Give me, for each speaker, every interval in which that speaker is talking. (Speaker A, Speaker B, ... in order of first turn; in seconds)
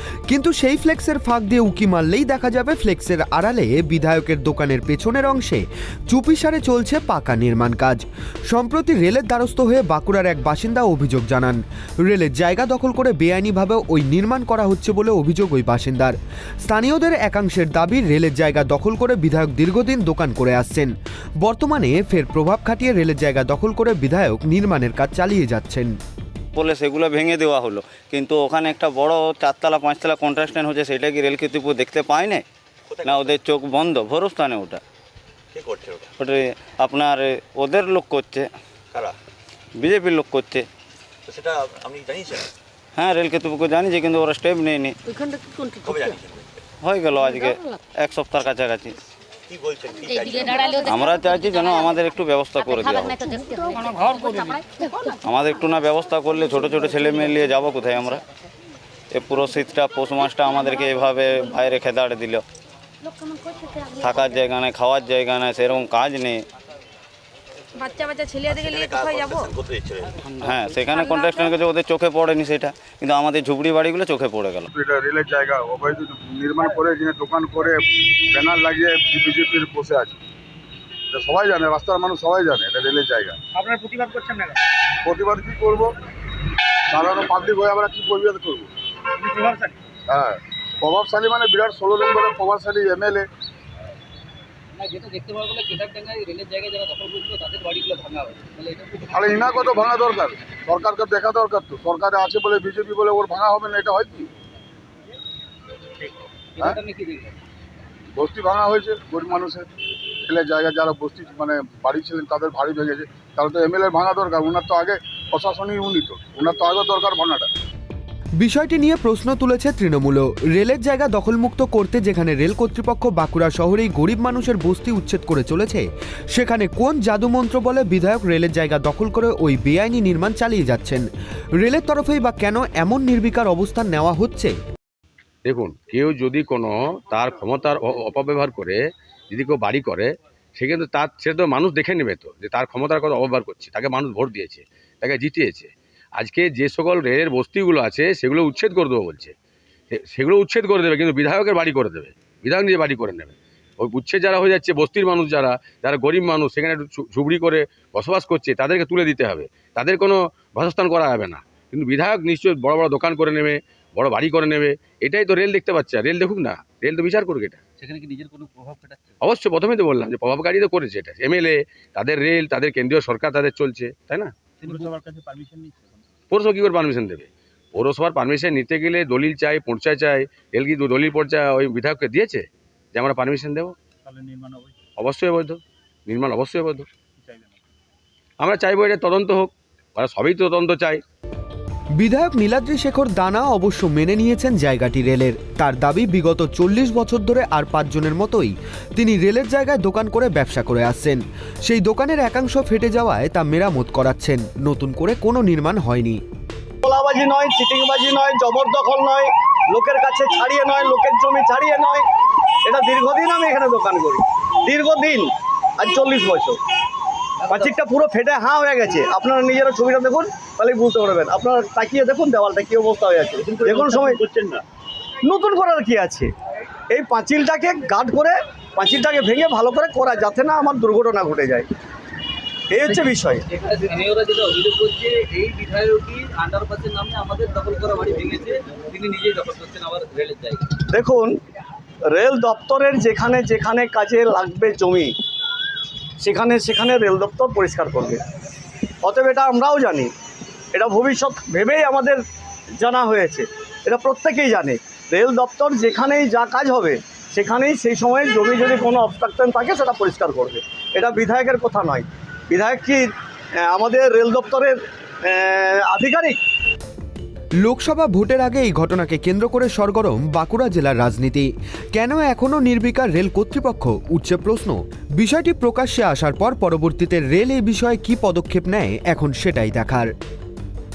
Speaker A: 0.3-25.9, 118.4-131.1, 131.6-134.5, 192.0-206.2, 267.6-280.1
Speaker B: 26.5-32.4, 33.0-34.8, 36.2-38.5, 39.8-40.7, 43.0-45.0, 46.8-48.9, 50.8-53.2, 55.2-58.2, 59.1-62.4, 63.9-66.4, 70.3-74.7
Speaker C: 32.9-33.3, 35.5-36.1, 41.3-42.5, 45.8-46.5, 49.5-50.8, 68.5-70.2
Speaker D: 67.8-69.5, 71.0-71.4
Speaker E: 74.7-80.2, 81.1-83.3, 85.0-85.9, 86.9-88.7, 90.1-93.3, 99.1-104.3, 108.1-109.7, 110.2-117.5
Speaker F: 83.5-84.6, 89.2-89.8, 174.7-175.9, 184.0-184.8, 187.2-187.6
Speaker G: 94.8-99.7, 106.0-107.4, 167.8-169.0, 174.6-174.9, 223.7-224.5, 232.8-240.7
Speaker H: 135.4-138.8, 139.3-149.3, 149.9-167.6, 169.2-174.3, 176.3-183.7, 185.0-186.9, 188.4-191.0
Speaker I: 206.8-212.0, 212.7-216.6, 217.4-224.2, 225.2-226.3, 226.9-231.7, 232.7-233.4, 240.9-241.4, 242.1-245.1, 246.2-248.2, 249.0-250.1, 250.7-252.2, 252.8-263.1, 263.6-266.4